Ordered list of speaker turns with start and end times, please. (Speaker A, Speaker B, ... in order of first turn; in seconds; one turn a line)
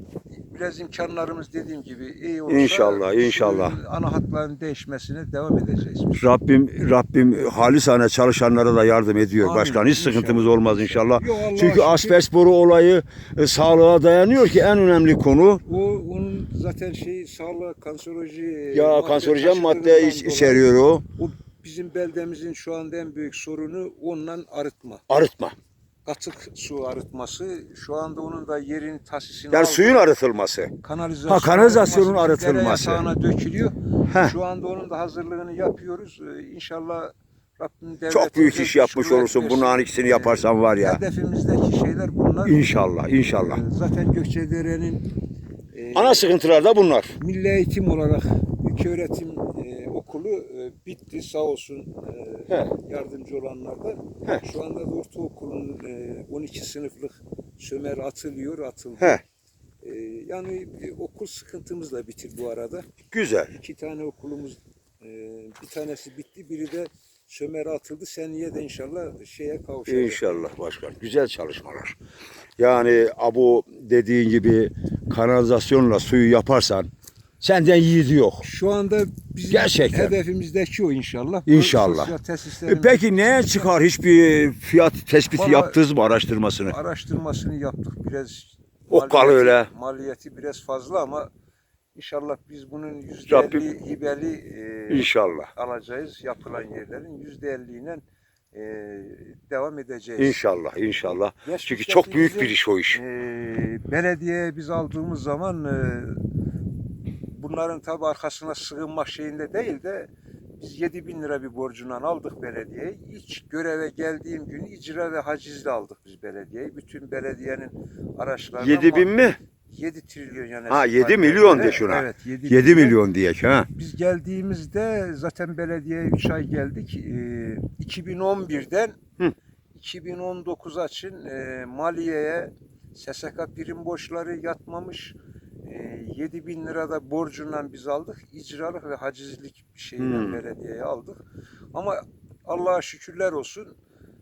Speaker A: 0.3-6.3
Speaker B: 2.5-3.8
Speaker B: 6.2-15.6
Speaker A: 9.4-12.2
Speaker A: 15.6-25.0
Speaker B: 18.7-21.0
Speaker B: 25.1-25.5
Speaker A: 26.1-30.0
Speaker B: 29.5-30.7
Speaker A: 30.8-42.6
Speaker B: 31.3-33.1
Speaker B: 34.1-34.3
Speaker B: 38.1-41.0
Speaker B: 42.4-43.6
Speaker A: 43.2-45.0
Speaker A: 45.7-46.3
Speaker B: 45.9-47.1
Speaker A: 47.1-59.2
Speaker A: 59.8-62.9
Speaker B: 63.1-63.5
Speaker A: 63.5-70.3
Speaker B: 69.9-72.0
Speaker B: 72.6-76.9
Speaker B: 77.4-78.4
Speaker A: 78.4-83.7
Speaker B: 79.5-80.1
Speaker B: 81.5-82.1
Speaker B: 82.7-86.8
Speaker A: 85.3-85.8
Speaker A: 86.6-91.3
Speaker B: 88.9-89.7
Speaker A: 91.9-98.0
Speaker B: 93.3-93.6
Speaker B: 94.9-95.5
Speaker A: 98.5-100.4
Speaker B: 100.2-103.0
Speaker A: 101.4-106.3
Speaker A: 107.3-123.0
Speaker B: 118.6-119.4
Speaker B: 120.7-123.7
Speaker A: 123.7-129.0
Speaker A: 129.7-141.2
Speaker B: 140.0-140.4
Speaker A: 141.7-143.7